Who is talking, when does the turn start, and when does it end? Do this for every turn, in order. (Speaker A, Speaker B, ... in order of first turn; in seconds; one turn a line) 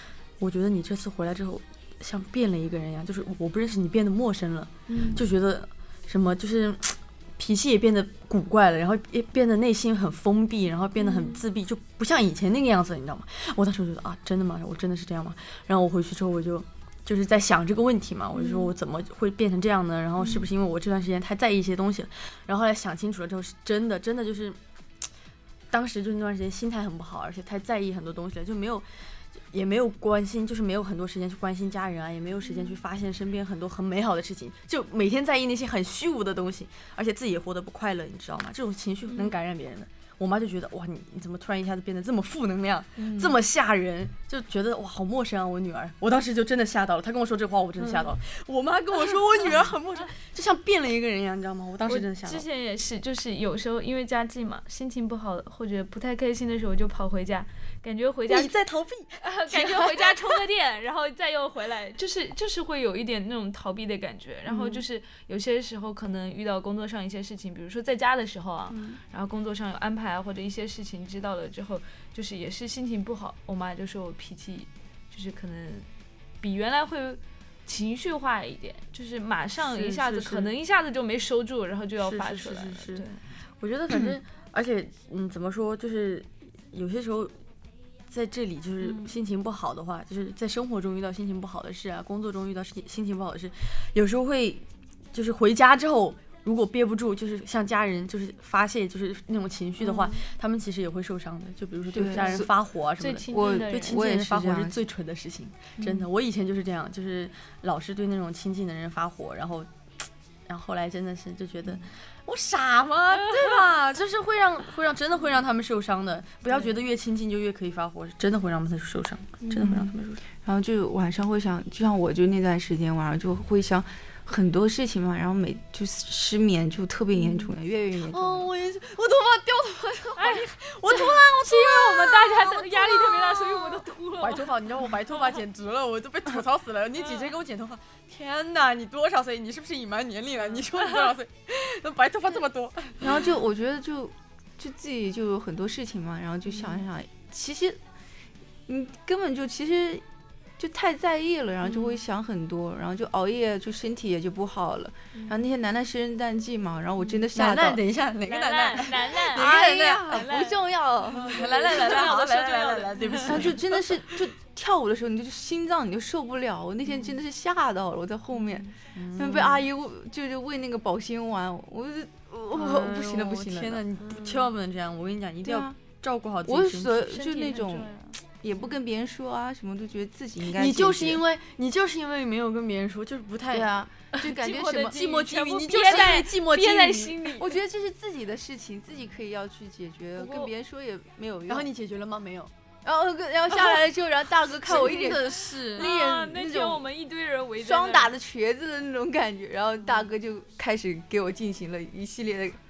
Speaker A: 0.4-24.6
Speaker B: 4.9-5.2
Speaker B: 11.0-11.4
Speaker B: 18.3-18.7
Speaker A: 25.7-28.9
Speaker A: 29.5-52.4
Speaker B: 32.5-32.8
Speaker B: 39.1-39.3
Speaker B: 43.0-43.3
Speaker B: 47.8-48.1
Speaker B: 51.9-58.5
Speaker A: 58.3-60.4
Speaker B: 59.2-75.9
Speaker A: 64.5-64.8
Speaker A: 68.7-69.0
Speaker B: 76.4-83.2
Speaker A: 79.6-80.5
Speaker A: 82.0-83.0
Speaker A: 83.6-87.3
Speaker A: 88.1-109.7
Speaker B: 88.8-89.1
Speaker B: 99.8-100.2
Speaker C: 101.9-102.5
Speaker B: 102.1-102.4
Speaker B: 103.0-104.0
Speaker C: 103.3-104.8
Speaker C: 105.8-106.1
Speaker A: 110.5-120.2
Speaker B: 113.2-113.6
Speaker C: 119.5-128.5
Speaker A: 127.2-127.5
Speaker A: 128.1-143.3
Speaker B: 130.2-134.5
Speaker B: 135.1-135.4
Speaker B: 137.0-137.3
Speaker C: 143.0-147.8
Speaker C: 148.7-150.0
Speaker C: 150.6-157.8
Speaker B: 151.7-152.0
Speaker B: 157.0-157.2
Speaker A: 157.3-160.3
Speaker B: 158.2-160.6
Speaker C: 159.3-162.1
Speaker A: 161.1-164.2
Speaker B: 161.1-163.6
Speaker C: 163.2-173.8
Speaker A: 168.9-169.7
Speaker A: 172.5-177.2
Speaker B: 174.0-174.4
Speaker C: 175.4-175.8
Speaker C: 176.4-181.2
Speaker B: 177.1-178.2
Speaker A: 180.5-183.8
Speaker C: 183.5-185.0
Speaker B: 184.1-187.6
Speaker A: 184.7-187.3
Speaker C: 185.7-186.2
Speaker C: 187.4-191.7
Speaker B: 190.2-190.5
Speaker A: 191.5-192.5
Speaker C: 192.8-196.8
Speaker A: 194.6-195.9
Speaker B: 195.8-198.1
Speaker C: 197.6-202.6